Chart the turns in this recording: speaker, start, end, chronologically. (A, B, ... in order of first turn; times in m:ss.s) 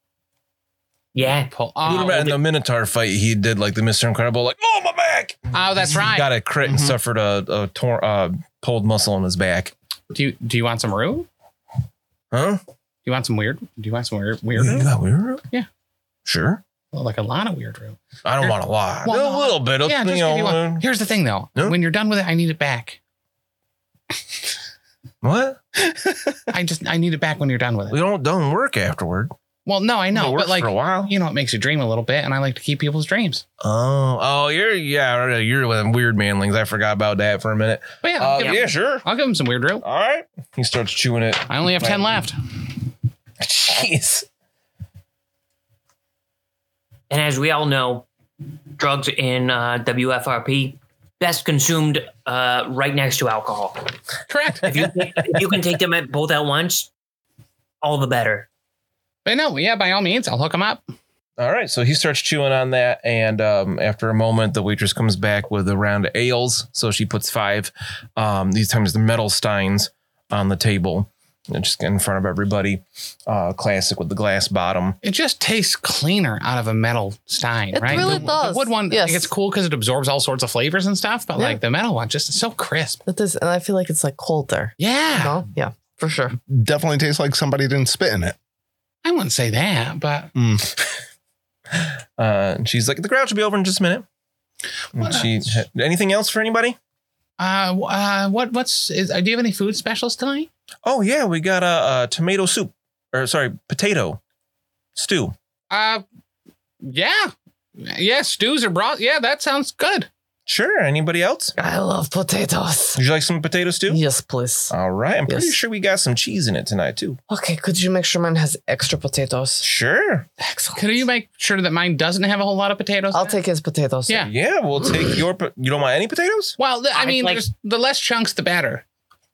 0:01.1-0:02.4 A
0:01.5-0:02.2 B
0:01.8-0:09.7 C
0:05.5-0:06.3 B
0:06.6-0:07.0 D
0:10.1-0:11.3 B
0:12.3-0:12.6 C
0:13.0-0:14.9 B
0:14.6-0:15.4 C
0:16.2-0:16.6 C
0:16.9-0:23.0 B
0:18.2-0:20.8 C
0:25.2-0:25.6 C
0:25.8-0:26.4 D
0:26.5-0:28.0 B
0:27.9-0:29.3 C
0:29.6-0:33.4 B
0:30.1-0:31.1 C
0:33.6-0:39.0 C
0:38.0-0:39.8 B
0:39.8-0:42.1 C
0:41.5-0:42.4 B
0:43.4-0:44.2 C
0:47.1-0:48.1 A
0:48.8-0:53.9 A
0:54.3-0:54.7 B
0:54.6-0:56.9 A
0:57.8-0:58.5 A
0:59.2-1:00.8 B
1:01.4-1:15.0 C
1:15.0-1:23.0 B
1:17.7-1:19.3 E
1:17.9-1:18.2 D
1:23.0-1:26.4 E
1:24.8-1:25.4 B
1:26.5-1:28.4 D
1:29.0-1:30.3 B
1:30.3-1:30.8 D
1:31.8-1:34.0 C
1:34.9-1:36.8 C
1:35.0-1:35.3 B
1:37.4-1:40.5 B
1:40.8-1:44.2 C
1:45.0-1:45.3 C
1:45.7-1:46.0 B
1:46.8-1:50.1 B
1:50.5-1:51.5 C
1:51.6-1:53.0 E
1:53.0-1:54.0 C
1:53.9-1:54.7 E
1:54.7-1:57.2 C
1:55.3-1:55.6 E
1:57.3-1:59.6 E
1:59.6-2:00.3 C
2:00.4-2:01.0 E
2:00.7-2:03.4 B
2:03.1-2:04.3 E
2:04.2-2:06.5 C
2:06.6-2:08.8 B
2:06.9-2:07.4 A